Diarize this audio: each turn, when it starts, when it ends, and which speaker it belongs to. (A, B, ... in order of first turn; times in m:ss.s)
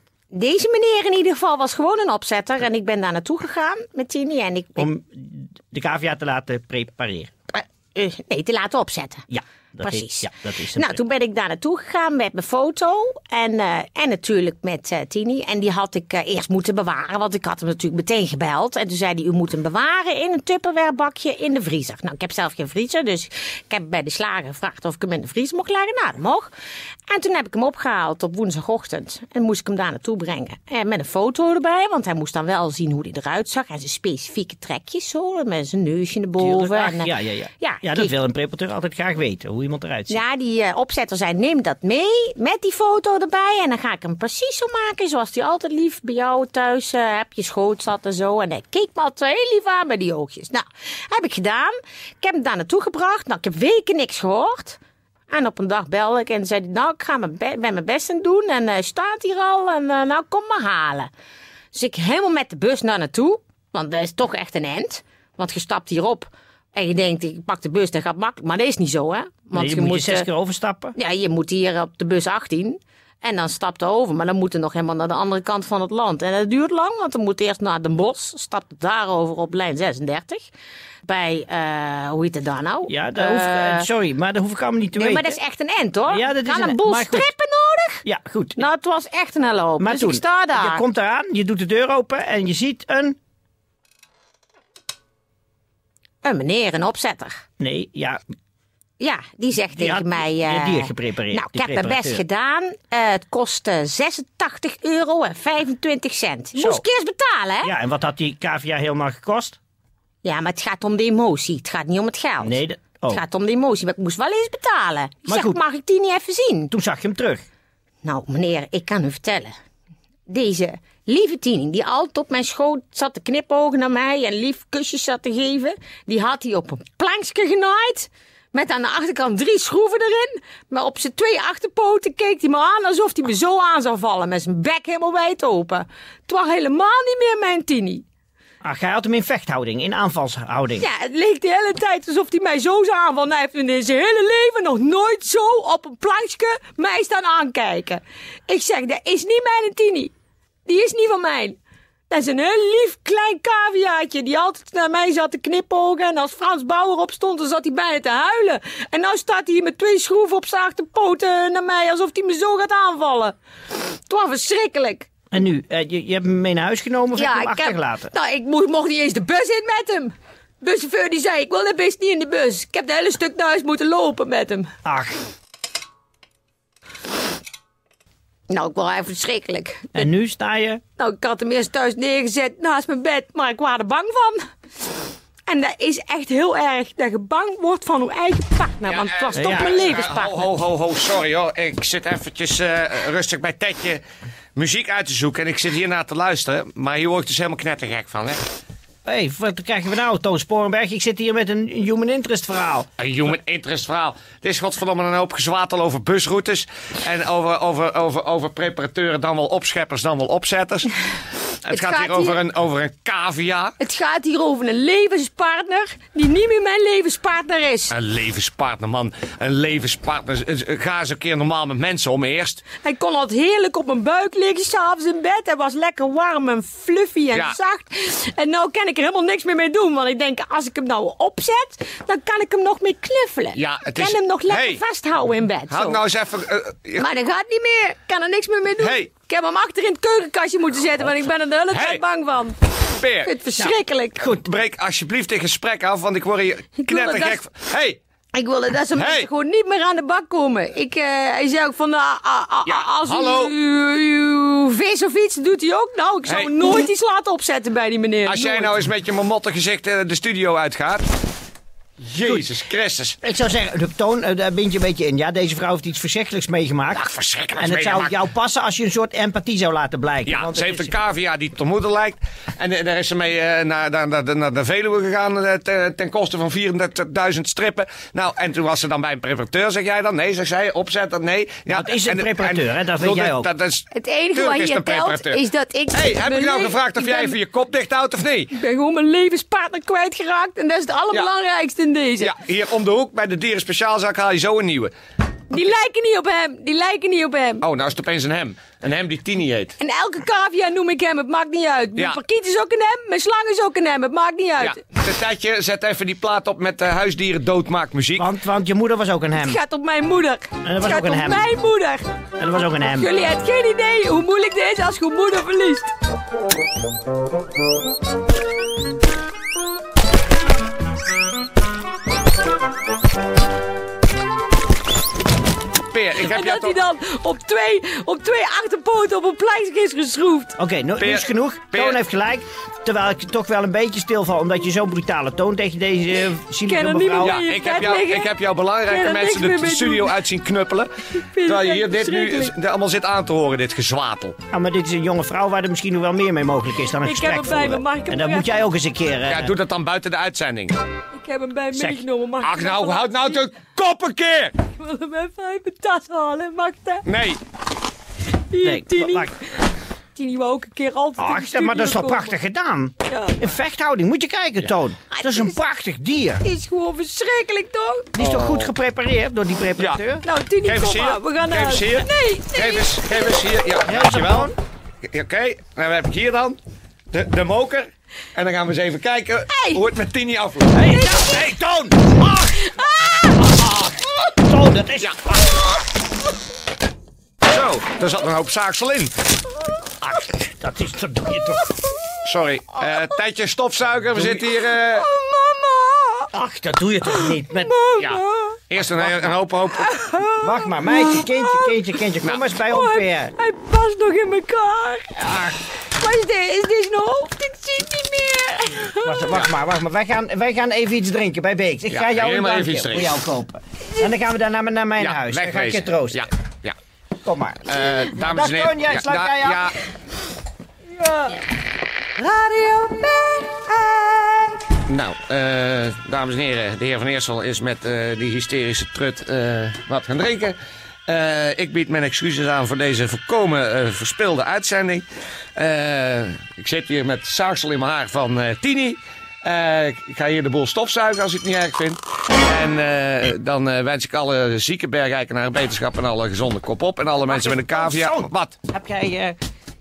0:00.3-0:04.9 A
0:04.8-0:07.3 B
0:07.5-0:09.3 A
0:09.3-0:11.0 B
0:09.8-0:26.5 A
0:27.1-0:38.1 A
0:36.4-0:40.2 B
0:40.1-0:54.8 A
0:55.3-1:01.1 A
1:01.7-1:10.3 A
1:09.6-1:11.0 B
1:11.0-1:20.5 A
1:21.0-1:23.9 A
1:22.9-1:25.4 B
1:25.0-1:28.0 A
1:26.1-1:27.3 B
1:28.0-1:28.6 B
1:28.6-1:30.8 A
1:29.8-1:33.2 B
1:36.2-1:37.4 A
1:37.6-1:38.2 B
1:39.0-1:47.7 A
1:39.8-1:42.2 B
1:46.6-1:46.8 B
1:47.6-1:49.6 B
1:50.2-1:56.7 A
1:52.4-1:53.2 B
1:55.3-1:55.6 B
1:56.7-1:57.4 B
1:58.0-1:59.5 A
2:00.3-2:18.0 A
2:18.6-2:20.9 B
2:20.8-2:30.1 A
2:30.7-2:31.6 A
2:32.1-2:43.4 A
2:44.0-2:45.1 A
2:45.3-2:48.1 B
2:47.2-2:54.7 A
2:54.8-2:55.2 B
2:58.5-3:00.1 A
3:00.0-3:00.8 B
3:01.0-3:04.4 A
3:05.5-3:10.4 A
3:08.9-3:14.0 C
3:09.4-3:09.8 B
3:14.6-3:18.4 C
3:19.1-3:22.9 B
3:23.0-3:30.9 C
3:31.6-3:33.8 C
3:31.7-3:32.4 A
3:33.8-3:37.9 A
3:37.9-3:42.6 C
3:42.8-3:56.0 A
3:53.6-3:54.8 C
3:55.7-3:57.1 C
3:57.0-4:02.6 A
3:58.8-3:59.1 C
4:01.7-4:02.0 C
4:03.0-4:03.3 C
4:03.2-4:04.4 A
4:04.2-4:08.0 C
4:06.8-4:07.4 A
4:08.3-4:18.8 A
4:09.0-4:09.3 C
4:12.7-4:13.5 C
4:16.3-4:16.7 C
4:18.3-4:21.1 C
4:22.0-4:23.2 C
4:23.2-4:27.0 B
4:26.9-4:28.2 C
4:27.6-4:30.9 B
4:30.3-4:45.4 C
4:41.7-4:43.5 B
4:43.9-4:47.4 A
4:45.9-4:48.5 C
4:48.5-4:52.3 A
4:52.2-4:54.9 C
4:55.5-4:57.6 A
4:57.6-4:59.8 C
4:59.8-5:04.8 A
5:04.6-5:08.3 C
5:08.2-5:09.6 B
5:09.4-5:12.1 A
5:10.6-5:11.5 B
5:12.4-5:13.1 B
5:12.9-5:15.9 A
5:25.9-5:26.7 C
5:26.2-5:30.6 A
5:30.6-5:37.4 B
5:31.0-5:32.0 C
5:36.6-5:40.2 A
5:37.2-5:40.9 C
5:41.2-5:42.5 A
5:41.4-5:44.4 C
5:44.5-5:49.6 B
5:47.0-5:48.7 A
5:49.3-5:50.8 C
5:51.1-5:53.4 A
5:51.7-5:52.0 B
5:52.4-5:54.6 C
5:54.7-5:57.1 A
5:57.1-5:57.4 C
5:58.5-5:59.6 A
5:58.6-5:59.4 B
6:00.2-6:02.4 A
6:01.2-6:06.4 B
6:03.1-6:03.5 A
6:05.1-6:05.6 A
6:06.4-6:08.1 A
6:08.2-6:10.2 B
6:08.2-6:08.7 C
6:10.2-6:13.4 A
6:10.6-6:16.6 C
6:13.9-6:14.6 B
6:17.1-6:20.8 C
6:19.5-6:19.8 A
6:20.7-6:22.6 B
6:20.9-6:21.5 A
6:22.2-6:23.6 A
6:23.6-6:25.6 B
6:27.4-6:29.1 C
6:30.0-6:31.6 B
6:32.2-6:35.1 C
6:35.0-6:36.3 A
6:36.3-6:37.7 B
6:37.1-6:38.6 A
6:38.0-6:39.9 C
6:39.0-6:39.4 B
6:39.8-6:41.8 A
6:40.4-6:43.3 B
6:42.7-6:49.3 A
6:45.2-6:45.5 B
6:49.0-6:56.3 B
6:51.9-6:53.2 C
6:55.0-6:56.8 C
6:57.2-6:59.7 B
6:57.7-6:59.8 C
7:02.2-7:04.2 B
7:04.9-7:28.6 C
7:27.2-7:29.4 B